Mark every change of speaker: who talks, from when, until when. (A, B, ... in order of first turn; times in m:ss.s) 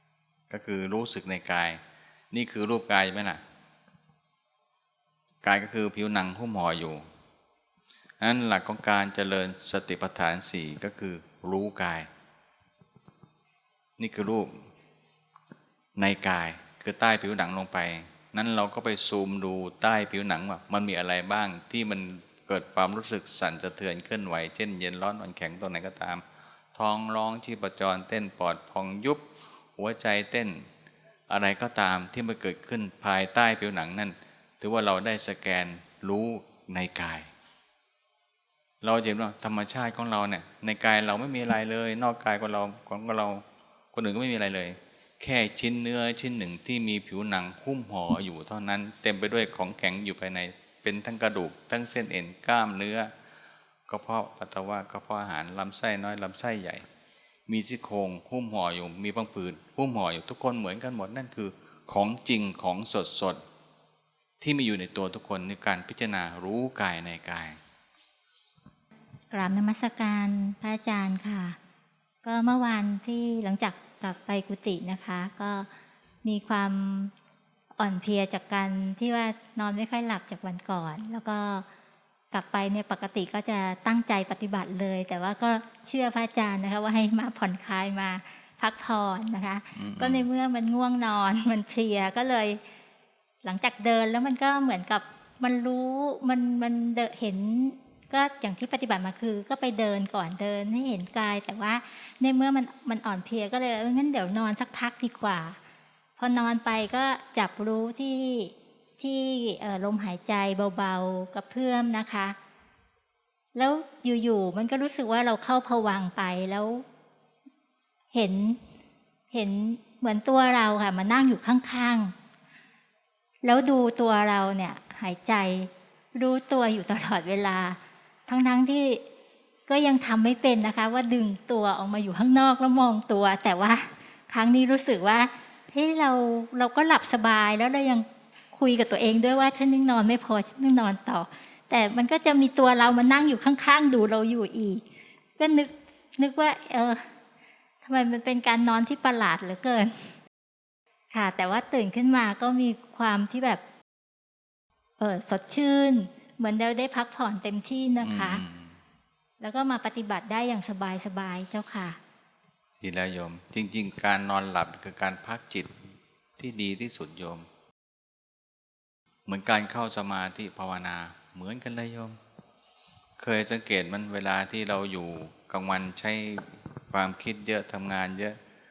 0:00.5-0:03.4 A
0:05.4-0:07.0 A
0:08.2-0:12.1 A
0:14.0-0:14.7 A
0:16.0-0:30.7 A
0:31.3-0:37.3 A
0:38.8-0:53.1 A
0:53.9-0:56.9 A
0:57.5-1:03.4 A
1:04.4-1:07.6 A
1:09.3-1:11.6 B
1:12.2-1:15.7 B
1:16.2-1:17.1 B
1:17.8-1:21.7 B
1:22.3-1:32.6 B
1:29.8-1:30.3 A
1:33.4-1:45.6 B
1:46.2-1:52.4 B
1:53.6-1:56.8 B
1:58.1-1:58.6 B
1:59.3-2:02.2 B
2:03.4-2:09.0 B
2:09.7-2:24.9 B
2:25.4-2:27.1 B
2:27.8-2:30.2 B
2:31.1-2:33.6 B
2:35.0-2:38.4 B
2:38.0-2:38.8 A
2:39.4-2:42.0 B
2:42.8-2:45.8 A
2:46.4-2:47.5 A
2:49.3-2:52.2 A
2:53.2-2:58.4 A